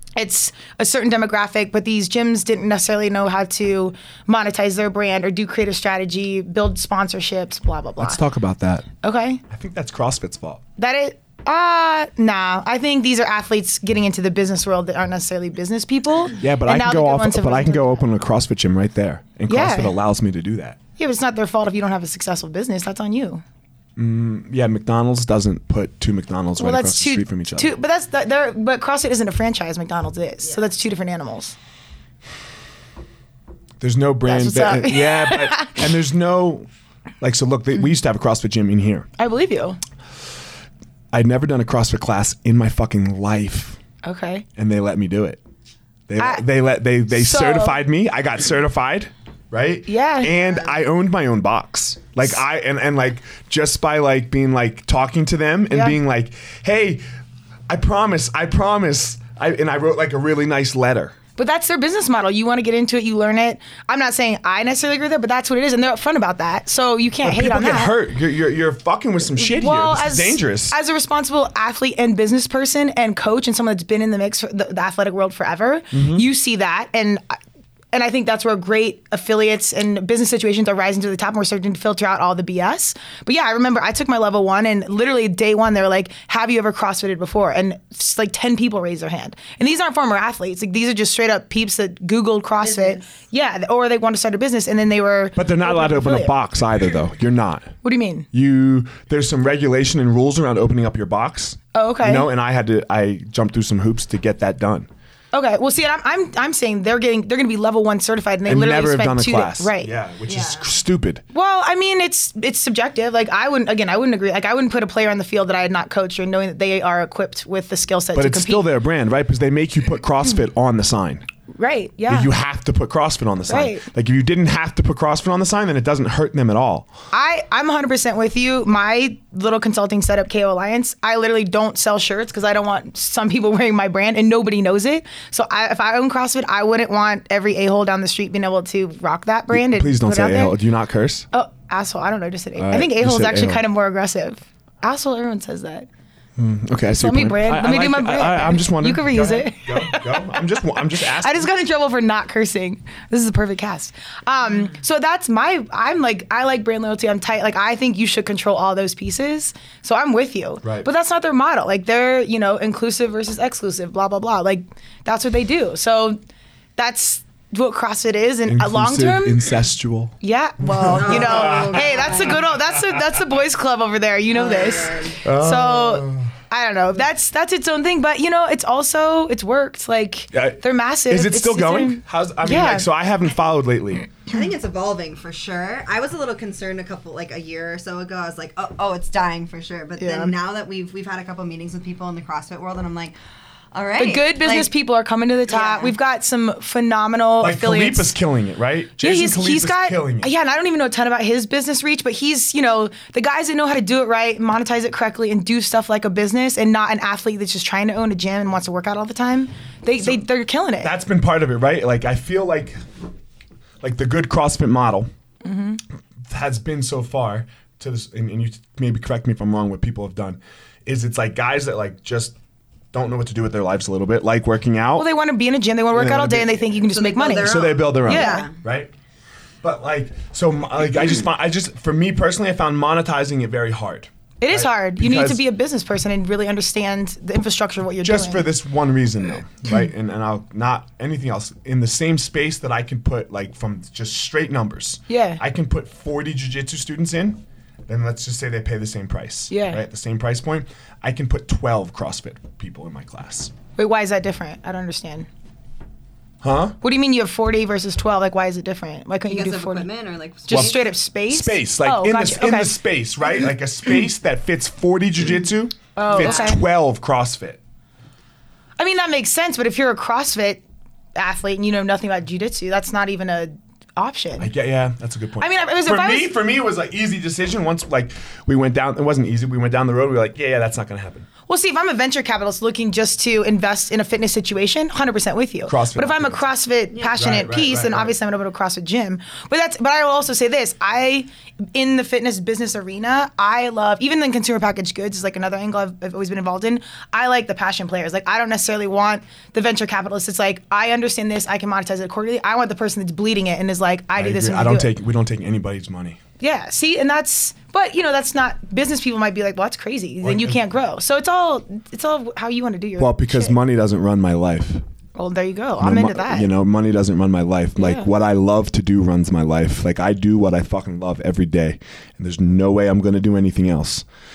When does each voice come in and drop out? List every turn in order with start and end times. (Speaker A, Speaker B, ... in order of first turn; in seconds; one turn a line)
Speaker A: 0.2-8.2
Speaker B: 8.0-8.9
Speaker A: 9.0-9.4
Speaker B: 9.5-10.6
Speaker A: 10.8-18.1
Speaker B: 16.4-20.8
Speaker A: 19.5-20.0
Speaker A: 21.0-23.4
Speaker B: 24.0-27.7
Speaker A: 26.6-31.6
Speaker B: 33.8-36.7
Speaker A: 34.2-35.9
Speaker B: 37.2-39.1
Speaker A: 39.2-39.8
Speaker B: 41.1-43.8
Speaker A: 44.0-44.5
Speaker B: 44.6-45.4
Speaker B: 46.1-57.0
Speaker A: 47.1-47.8
Speaker A: 49.9-50.3
Speaker A: 55.7-56.0
Speaker B: 57.7-61.1
Speaker A: 61.4-67.9
Speaker B: 67.2-70.8
Speaker A: 69.4-77.4
Speaker B: 75.9-76.2
Speaker A: 77.9-96.3
Speaker C: 92.6-93.0
Speaker B: 95.3-97.7
Speaker A: 97.8-98.3
Speaker B: 98.3-104.9
Speaker A: 101.7-102.3
Speaker A: 105.3-109.9
Speaker B: 108.5-111.2
Speaker C: 110.2-110.7
Speaker A: 111.3-118.7
Speaker B: 118.1-121.2
Speaker A: 121.5-122.3
Speaker B: 122.1-126.9
Speaker A: 123.5-123.8
Speaker A: 127.1-140.6
Speaker B: 139.5-141.3
Speaker A: 141.3-145.9
Speaker B: 142.6-143.6
Speaker B: 146.4-151.5
Speaker A: 146.9-150.4
Speaker A: 151.1-166.2
Speaker B: 160.6-160.9
Speaker A: 166.8-169.4
Speaker B: 168.5-172.3
Speaker A: 170.2-182.9
Speaker C: 170.9-172.4
Speaker C: 174.3-175.2
Speaker B: 175.2-176.3
Speaker B: 180.3-184.1
Speaker C: 184.3-193.1
Speaker A: 190.0-190.3
Speaker C: 193.7-194.7
Speaker A: 194.0-198.1
Speaker C: 195.5-195.9
Speaker B: 197.4-200.3
Speaker A: 199.0-210.9
Speaker B: 210.8-212.8
Speaker B: 213.8-215.1
Speaker A: 215.4-215.8
Speaker B: 216.3-222.3
Speaker B: 222.9-225.1
Speaker A: 225.0-228.5
Speaker B: 225.9-226.7
Speaker C: 226.9-228.5
Speaker B: 227.4-228.9
Speaker B: 229.6-235.4
Speaker A: 234.4-238.4
Speaker B: 238.0-253.5
Speaker A: 245.1-245.4
Speaker A: 249.5-249.8
Speaker A: 253.8-255.3
Speaker B: 256.4-256.8
Speaker A: 256.8-259.9
Speaker C: 259.3-260.9
Speaker A: 260.5-262.7
Speaker B: 260.5-260.8
Speaker B: 261.3-267.6
Speaker A: 265.9-266.6
Speaker A: 268.8-270.6
Speaker A: 271.1-274.5
Speaker B: 274.4-281.3
Speaker A: 275.4-276.3
Speaker A: 281.5-304.9
Speaker B: 285.7-286.5
Speaker B: 287.1-288.1
Speaker B: 304.1-306.2
Speaker A: 306.4-313.6
Speaker B: 310.2-310.6
Speaker B: 313.0-314.8
Speaker A: 315.1-316.5
Speaker B: 315.8-324.0
Speaker A: 317.8-318.1